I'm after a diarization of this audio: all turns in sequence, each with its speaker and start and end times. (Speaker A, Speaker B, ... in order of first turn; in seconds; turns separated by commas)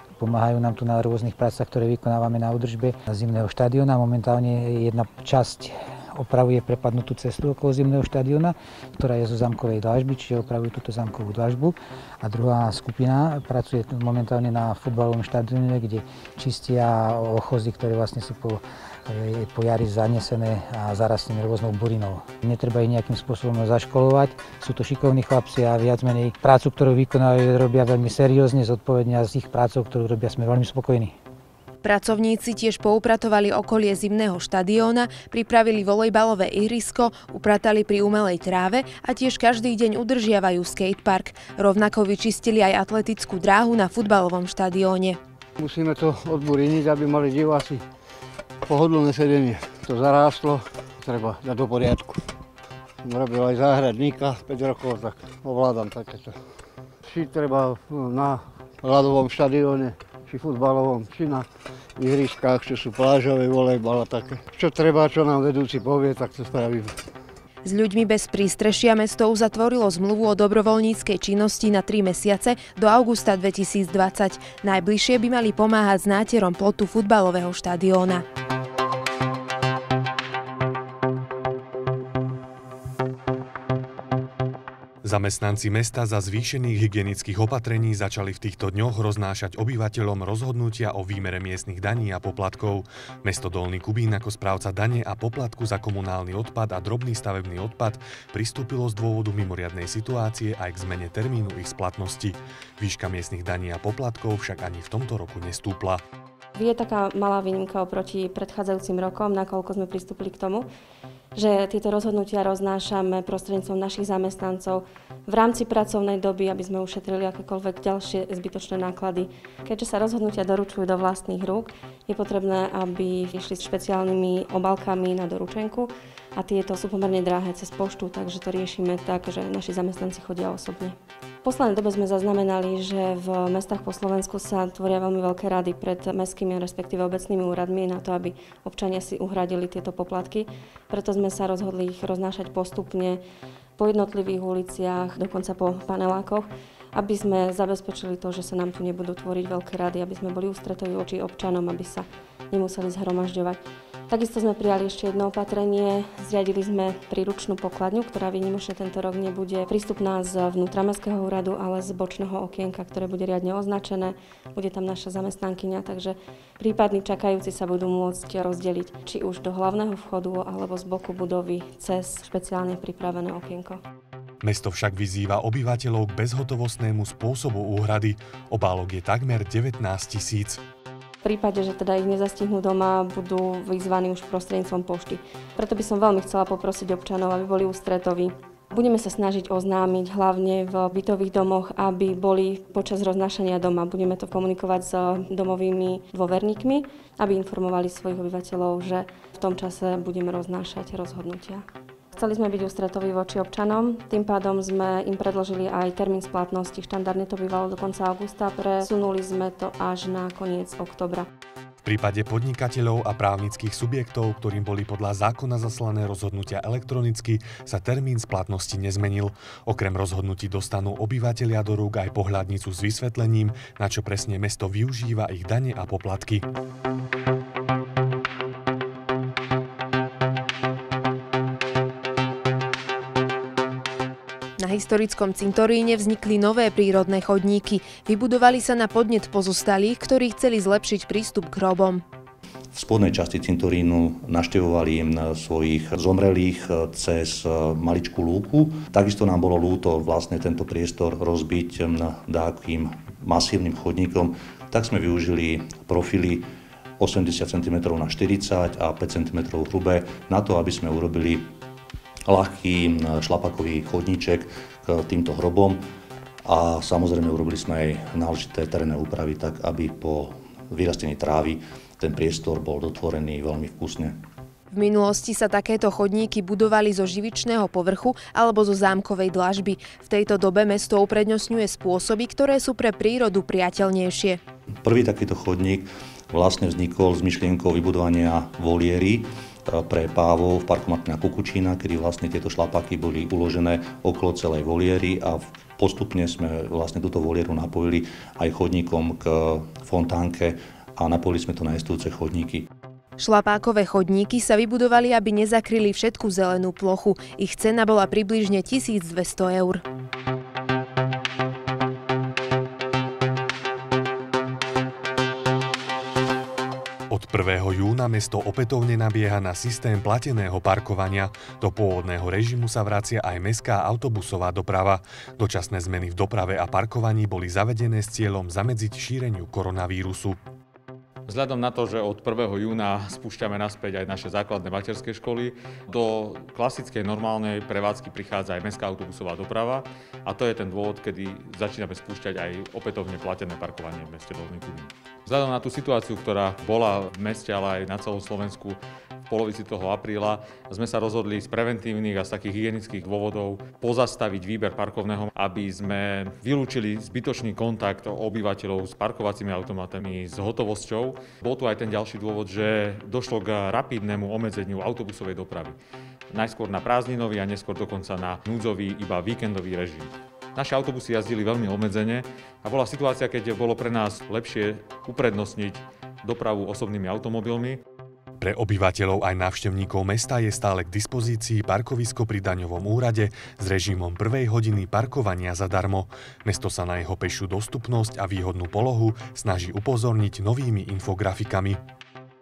Speaker A: 0.2-31.1, Speaker B: 31.8-45.2, Speaker C: 45.6-47.8, Speaker C: 48.6-52.2, Speaker C: 53.0-56.3, Speaker C: 57.0-67.0, Speaker B: 67.6-78.2, Speaker D: 85.0-106.0, Speaker E: 106.5-110.7, Speaker E: 111.3-143.2, Speaker E: 143.8-173.8, Speaker D: 174.4-180.6, Speaker E: 181.2-211.3, Speaker D: 211.8-226.5, Speaker B: 234.6-242.0, Speaker F: 242.7-261.5, Speaker F: 262.3-265.8, Speaker F: 266.4-274.2, Speaker B: 274.7-284.4, Speaker F: 284.8-302.7, Speaker B: 303.2-309.8, Speaker D: 317.1-330.4, Speaker G: 331.3-365.8, Speaker G: 366.3-377.8, Speaker D: 378.4-391.8